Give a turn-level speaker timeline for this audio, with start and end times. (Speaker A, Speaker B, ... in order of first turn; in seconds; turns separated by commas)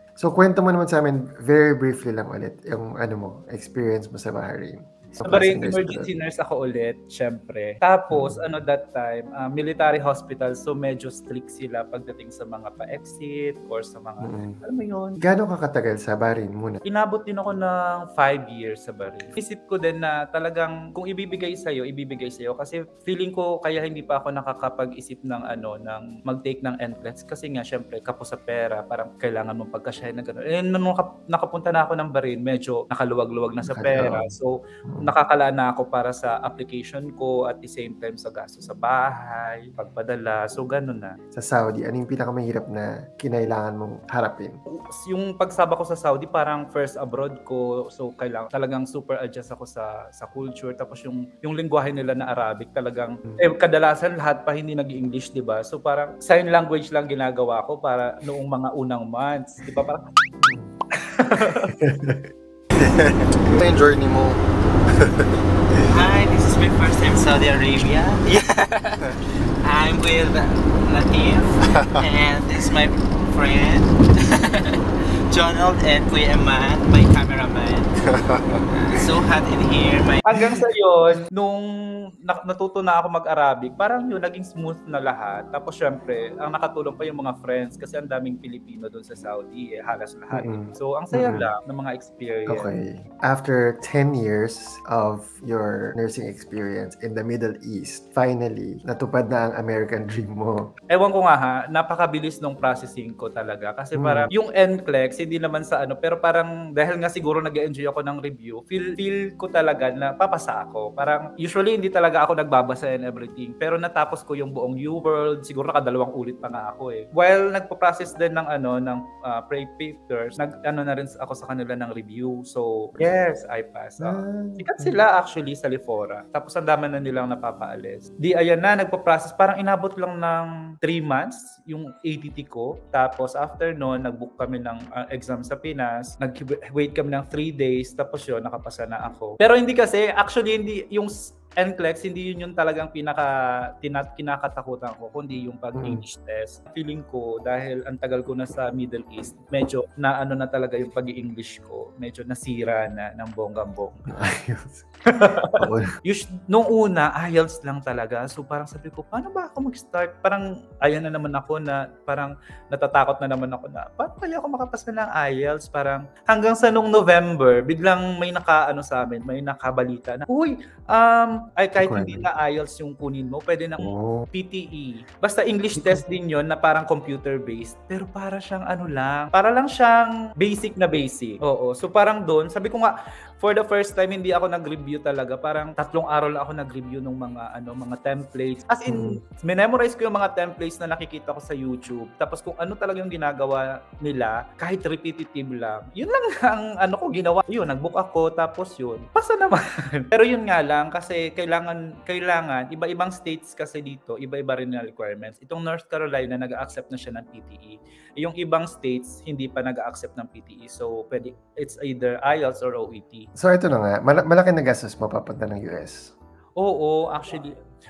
Speaker A: 0.2-6.1, Speaker B: 5.2-15.2, Speaker A: 8.1-8.4, Speaker A: 14.2-14.6, Speaker A: 15.2-16.8, Speaker B: 16.9-41.1, Speaker A: 33.6-34.3, Speaker A: 34.9-35.1, Speaker A: 41.3-44.6, Speaker B: 44.9-60.0, Speaker A: 60.4-60.7, Speaker B: 61.0-61.7, Speaker A: 61.8-62.2, Speaker A: 62.8-64.4, Speaker C: 65.9-69.1, Speaker C: 69.6-74.8, Speaker C: 75.3-77.9, Speaker C: 78.9-80.2, Speaker B: 80.2-81.7, Speaker B: 82.2-92.7, Speaker A: 90.3-91.5, Speaker A: 92.5-100.7, Speaker B: 100.9-154.1, Speaker A: 104.0-104.3, Speaker A: 124.0-125.0, Speaker A: 145.8-146.0, Speaker A: 154.1-154.8, Speaker B: 155.1-213.3, Speaker A: 155.6-155.9, Speaker A: 171.8-172.3, Speaker A: 173.8-174.3, Speaker A: 175.8-176.0, Speaker A: 188.9-189.2, Speaker A: 213.4-216.1, Speaker B: 216.6-217.5